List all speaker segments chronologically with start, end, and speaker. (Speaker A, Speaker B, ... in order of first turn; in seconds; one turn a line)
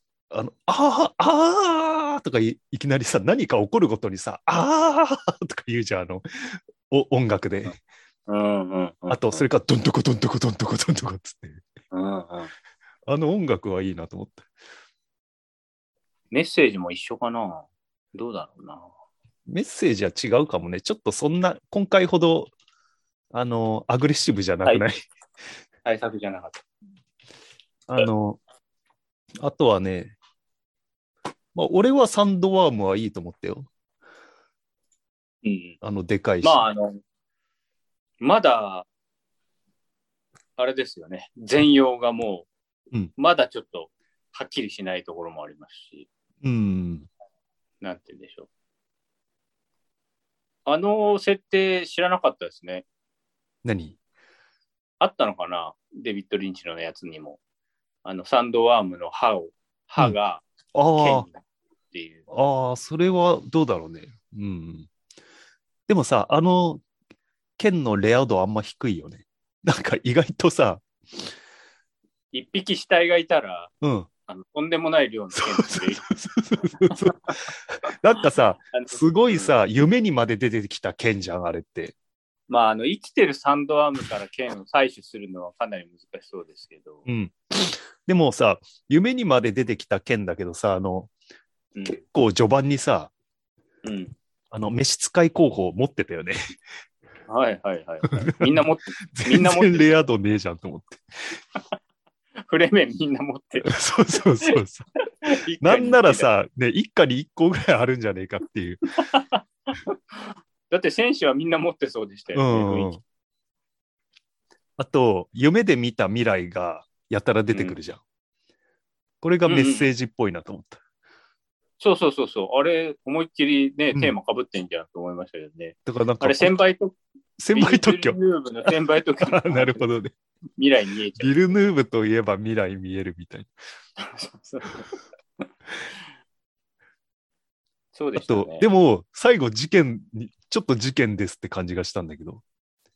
Speaker A: 0.3-7.8
Speaker B: 8.3-9.4
Speaker A: 9.1-11.6
Speaker B: 11.9-12.5
Speaker A: 13.1-14.4
Speaker B: 16.3-18.9
Speaker A: 19.5-22.5
Speaker A: 23.3-25.0
Speaker B: 25.9-26.6
Speaker A: 27.9-28.4
Speaker A: 29.4-30.1
Speaker A: 31.5-33.7
Speaker B: 35.4-35.8
Speaker A: 35.8-36.6
Speaker B: 36.4-37.0
Speaker B: 38.2-38.9
Speaker B: 40.6-42.5
Speaker B: 43.2-46.1
Speaker A: 46.4-47.1
Speaker B: 47.8-48.5
Speaker B: 50.7-52.9
Speaker A: 53.6-54.0
Speaker B: 55.0-57.4
Speaker B: 58.0-60.4
Speaker A: 60.7-61.3
Speaker B: 61.0-62.2
Speaker A: 62.3-64.9
Speaker A: 65.9-66.8
Speaker A: 67.6-70.8
Speaker B: 72.3-73.7
Speaker A: 73.8-74.1
Speaker B: 74.3-76.0
Speaker A: 75.3-82.0
Speaker B: 78.7-79.5
Speaker B: 82.5-87.1
Speaker A: 87.1-91.1
Speaker A: 92.0-93.1
Speaker B: 93.8-94.1
Speaker A: 94.5-96.4
Speaker B: 97.3-99.9
Speaker A: 98.1-101.4
Speaker B: 102.4-103.7
Speaker A: 103.6-104.9
Speaker B: 105.2-106.3
Speaker A: 105.6-108.9
Speaker B: 109.0-112.9
Speaker A: 112.3-113.0
Speaker A: 114.8-118.0
Speaker A: 119.2-120.8
Speaker B: 119.5-119.9
Speaker B: 121.8-127.0
Speaker A: 125.9-126.5
Speaker A: 127.4-130.1
Speaker B: 127.5-129.8
Speaker B: 130.6-131.3
Speaker A: 131.2-133.5
Speaker B: 134.0-134.8
Speaker B: 137.9-138.7
Speaker A: 138.2-142.4